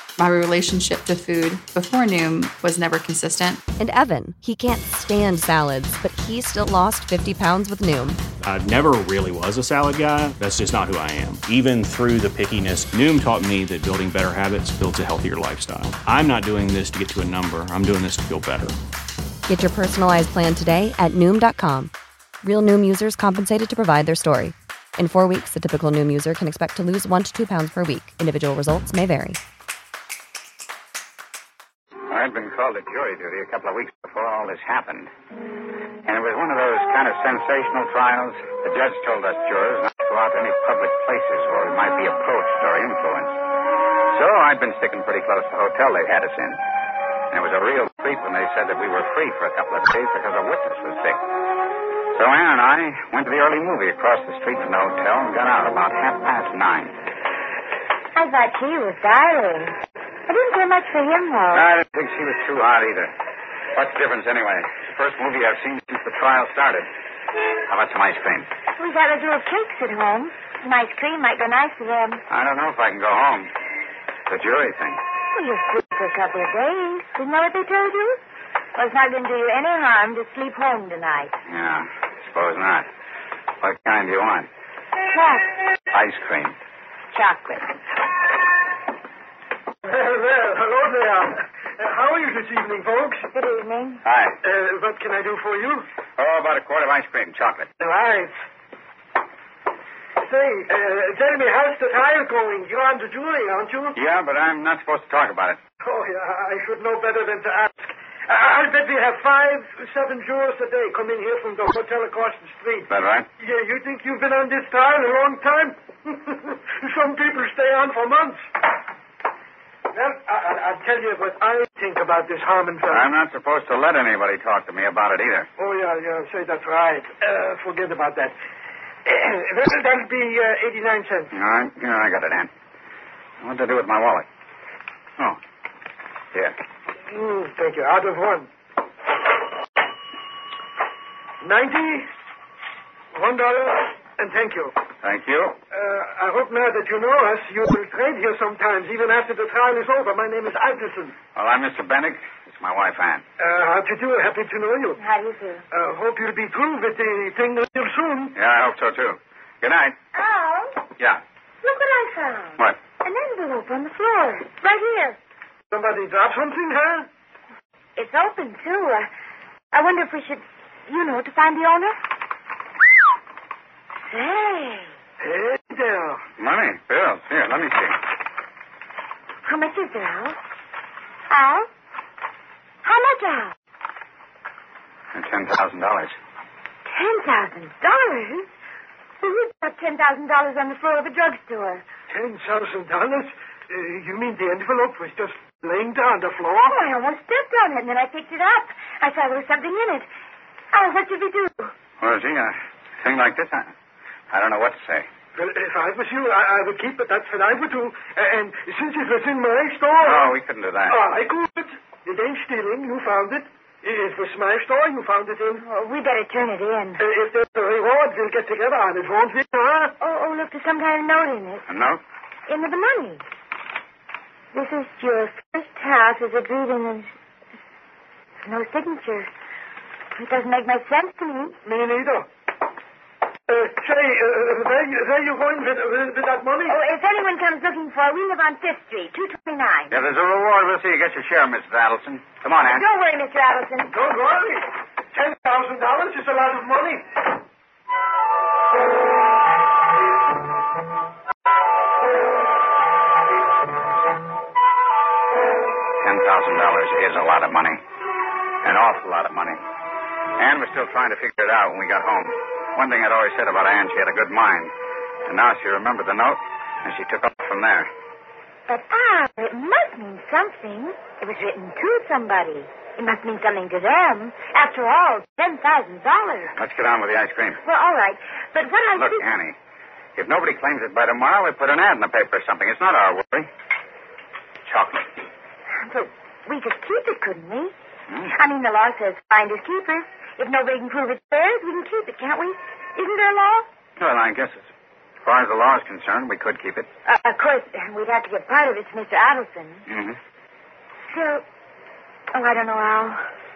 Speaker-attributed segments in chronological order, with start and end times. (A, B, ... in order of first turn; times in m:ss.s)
0:00.2-0:03.6 A
0:03.8-0:08.2 B
0:08.4-0:18.8 C
0:19.5-0:21.9 B
0:22.4-0:29.4 B
0:32.1-0:35.1 D
0:36.0-0:43.4 D
0:44.1-0:46.6 D
0:47.3-0:51.3 D
0:52.1-0:57.0 D
0:58.2-1:01.7 E
1:01.5-1:03.1 D
1:03.7-1:06.9 D
1:07.6-1:08.5 D
1:08.8-1:12.2 E
1:12.3-1:13.5 D
1:14.3-1:15.0 D
1:15.3-1:18.2 E
1:18.8-1:21.3 E
1:21.5-1:22.9 D
1:23.6-1:24.5 D
1:25.1-1:25.5 E
1:25.9-1:26.6 D
1:27.1-1:27.8 E
1:29.8-1:33.3 F
1:33.3-1:34.0 E
1:34.0-1:34.4 D
1:34.4-1:35.8 F
1:36.2-1:37.7 D
1:37.8-1:38.3 F
1:40.2-1:44.0 F
1:44.0-1:45.6 D
1:45.8-1:58.5 F
1:52.9-1:53.3 D
1:59.9-2:03.1 F
2:02.9-2:05.5 D
2:05.6-2:08.4 F
2:09.0-2:11.3 F
2:11.3-2:12.5 D
2:13.4-2:14.3 D
2:17.1-2:18.5 F
2:21.4-2:22.1 F
2:23.1-2:24.8 F
2:25.0-2:25.6 D
2:25.7-2:31.2 F
2:31.4-2:33.2 D
2:33.4-2:35.0 F
2:35.0-2:35.6 E
2:35.7-2:38.3 F
2:38.4-2:40.0 D
2:40.1-2:40.8 E
2:41.6-2:45.2 E
2:45.7-2:47.1 F
2:48.0-2:49.1 E
2:49.7-2:52.0 E
2:54.1-2:54.9 E
2:55.2-2:56.2 F
2:56.4-2:58.0 D
2:59.4-3:00.4 E
3:01.3-3:01.7 E
3:02.8-3:03.5 E
3:05.1-3:06.2 D
3:06.9-3:08.5 E
3:09.2-3:11.8 E
3:12.1-3:16.8 F
3:16.7-3:20.1 E
3:20.7-3:21.7 E
3:22.0-3:23.7 D
3:24.3-3:25.1 D
3:25.4-3:30.3 F
3:30.0-3:31.0 D
3:30.9-3:35.6 F
3:35.6-3:37.0 E
3:37.0-3:39.9 F
3:40.0-3:41.7 E
3:41.7-3:42.0 D
3:42.5-3:43.2 E
3:44.5-3:47.1 E
3:48.4-3:49.3 E
3:50.2-3:51.6 E
3:51.6-3:52.3 F
3:53.5-3:56.8 F
3:56.7-4:00.0 E
3:59.9-4:02.8 D
4:02.7-4:03.9 E
4:03.9-4:07.1 F
4:16.0-4:17.8 D
4:18.6-4:19.6 D
4:20.4-4:24.7 D
4:25.3-4:27.9 D
4:28.7-4:36.6 E
4:36.6-4:37.6 D
4:37.6-4:39.3 E
4:39.0-4:39.6 D
4:40.2-4:43.5 D
4:44.6-4:45.1 D
4:45.8-4:47.7 E
4:48.3-4:53.7 E
4:54.0-4:54.7 D
4:55.2-4:56.9 D
4:57.0-4:59.9 E
4:59.9-5:00.2 D
5:01.1-5:01.4 E
5:02.3-5:03.2 E